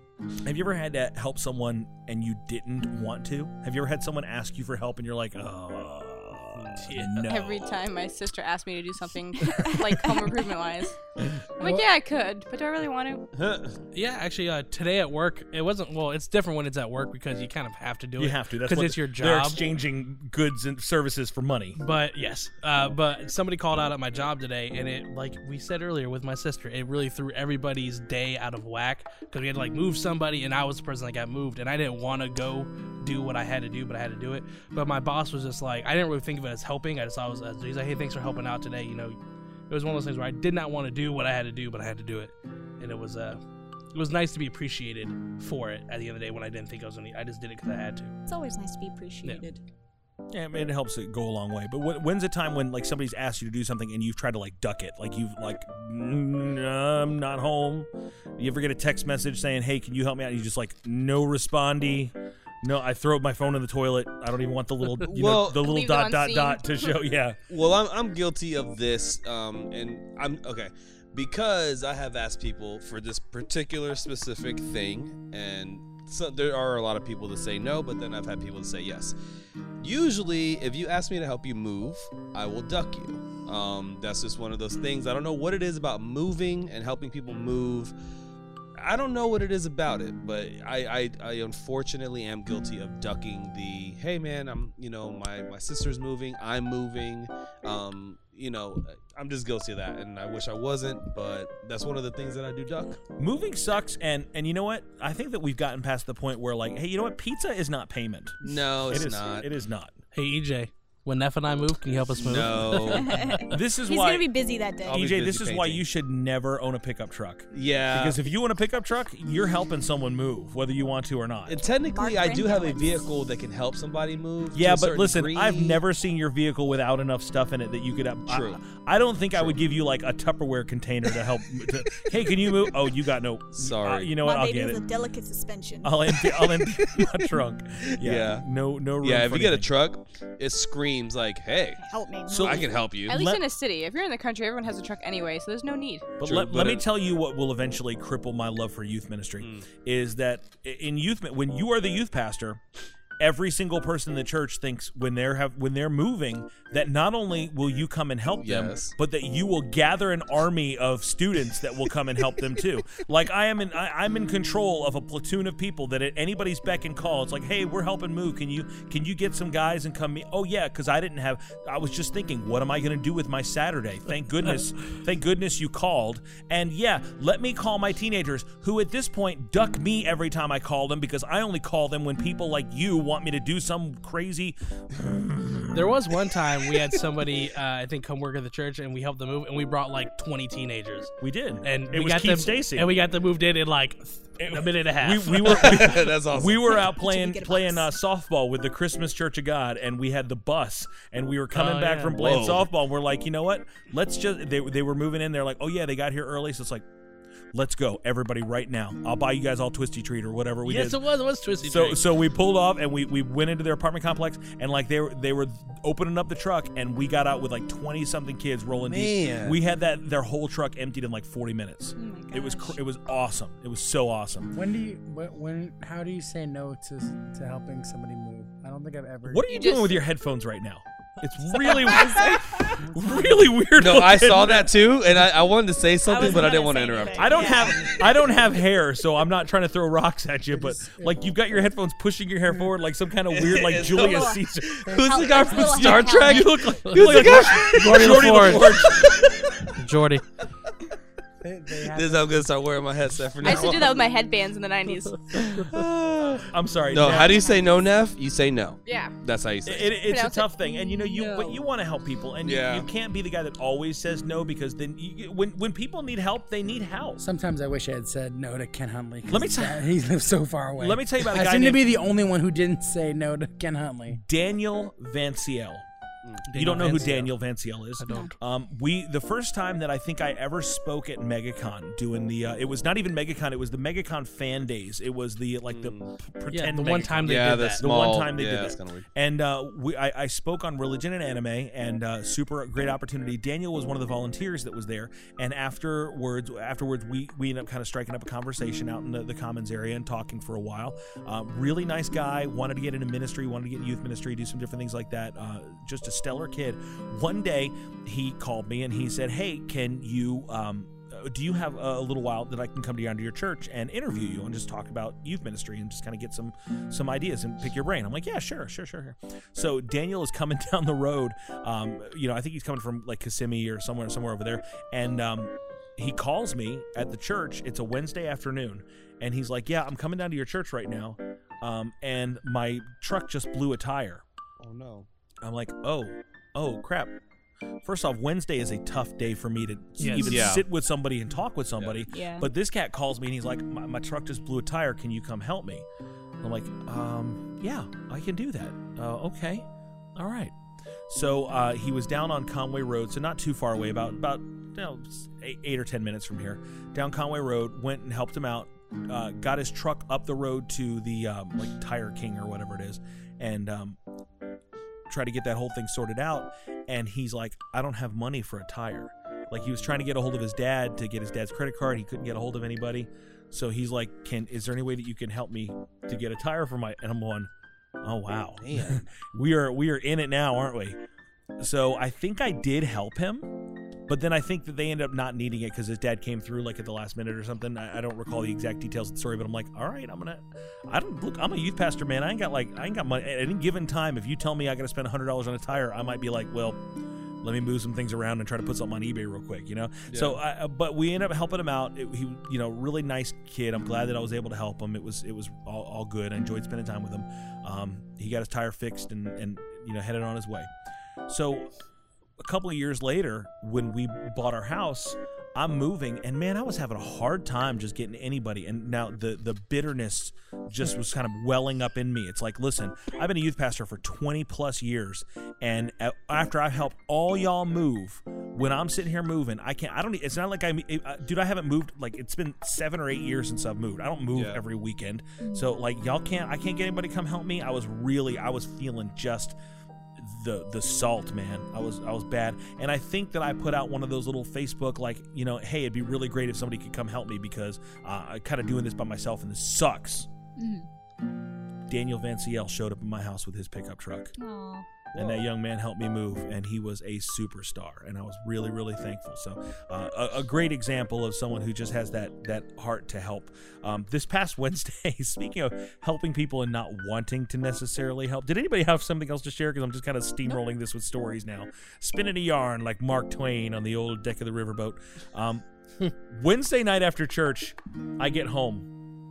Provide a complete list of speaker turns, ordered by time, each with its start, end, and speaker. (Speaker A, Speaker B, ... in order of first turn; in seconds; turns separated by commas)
Speaker A: 0.4-7.7, Speaker B: 6.5-6.9, Speaker C: 6.9-7.2, Speaker D: 7.2-10.9, Speaker E: 9.5-9.9, Speaker D: 11.6-13.2, Speaker B: 13.3-13.8, Speaker C: 13.9-19.6, Speaker A: 18.2-21.8, Speaker C: 21.8-39.1, Speaker C: 39.7-43.4, Speaker C: 43.9-48.1, Speaker E: 48.3-49.6, Speaker A: 50.3-67.4, Speaker B: 65.0-65.7, Speaker D: 65.5-66.9, Speaker B: 67.5-79.1, Speaker B: 79.8-87.9, Speaker B: 88.8-103.0, Speaker A: 103.2-109.9, Speaker B: 108.4-109.5, Speaker C: 110.1-113.5, Speaker B: 112.1-113.2, Speaker E: 112.9-115.0, Speaker A: 113.5-114.3, Speaker B: 114.8-115.8, Speaker A: 114.9-121.6, Speaker B: 117.5-118.2, Speaker B: 121.5-125.8, Speaker E: 121.9-123.1, Speaker A: 124.5-134.8, Speaker B: 128.3-128.6, Speaker B: 129.3-129.6, Speaker B: 132.5-132.9, Speaker B: 133.5-134.1, Speaker E: 134.2-136.2, Speaker A: 135.8-139.7, Speaker B: 138.0-138.5, Speaker B: 139.0-143.2, Speaker E: 141.8-142.8, Speaker A: 142.3-143.4, Speaker D: 143.1-146.2, Speaker A: 146.2-152.6, Speaker B: 146.2-146.8, Speaker B: 149.4-149.7, Speaker A: 153.2-185.9, Speaker B: 158.4-158.9, Speaker C: 185.7-195.9, Speaker A: 191.2-192.9, Speaker A: 194.4-206.8, Speaker B: 195.4-196.9, Speaker E: 196.8-197.9, Speaker C: 201.5-202.3, Speaker B: 202.2-202.7, Speaker A: 207.5-211.0, Speaker C: 210.6-212.0, Speaker A: 211.6-224.5, Speaker B: 218.8-219.6, Speaker E: 222.0-222.8, Speaker F: 224.5-229.4, Speaker A: 229.2-234.7, Speaker D: 229.4-230.1, Speaker E: 231.5-232.8, Speaker F: 232.8-233.6, Speaker B: 233.7-237.8, Speaker E: 236.0-238.1, Speaker A: 237.2-249.1, Speaker F: 240.5-241.2, Speaker B: 243.3-249.5, Speaker E: 244.0-246.7, Speaker F: 244.9-245.2, Speaker C: 246.8-248.8, Speaker C: 249.8-250.2, Speaker F: 251.4-252.5, Speaker B: 251.8-254.1, Speaker F: 253.4-253.9, Speaker D: 253.4-255.2, Speaker B: 255.3-260.0, Speaker A: 256.4-257.4, Speaker E: 257.3-257.7, Speaker D: 258.8-259.1, Speaker A: 259.6-267.2, Speaker D: 260.1-261.6, Speaker B: 262.4-262.9, Speaker F: 267.2-274.2, Speaker A: 269.3-269.9, Speaker A: 270.8-271.9, Speaker A: 274.1-275.8, Speaker C: 276.5-277.3, Speaker A: 276.5-334.2, Speaker C: 278.0-278.3, Speaker E: 278.1-278.3, Speaker B: 285.7-286.1, Speaker C: 286.5-287.8, Speaker B: 287.2-289.1, Speaker B: 334.6-335.1, Speaker A: 335.4-337.1, Speaker A: 337.8-345.8, Speaker C: 340.0-340.4, Speaker B: 340.2-340.6, Speaker B: 341.8-342.0, Speaker E: 342.1-342.5, Speaker A: 346.4-350.5, Speaker A: 351.1-364.0, Speaker A: 365.1-377.5, Speaker B: 369.6-369.9, Speaker A: 378.0-381.0, Speaker B: 378.5-379.1, Speaker A: 381.6-383.5, Speaker A: 384.1-396.8, Speaker A: 397.4-410.7, Speaker B: 400.1-400.4, Speaker A: 411.3-411.7, Speaker A: 412.4-439.6, Speaker B: 434.3-434.6, Speaker E: 435.4-435.7, Speaker A: 440.2-450.3, Speaker E: 450.6-450.9, Speaker A: 451.9-454.3, Speaker E: 454.4-454.9, Speaker B: 455.1-455.5, Speaker A: 455.1-475.6, Speaker A: 476.3-478.9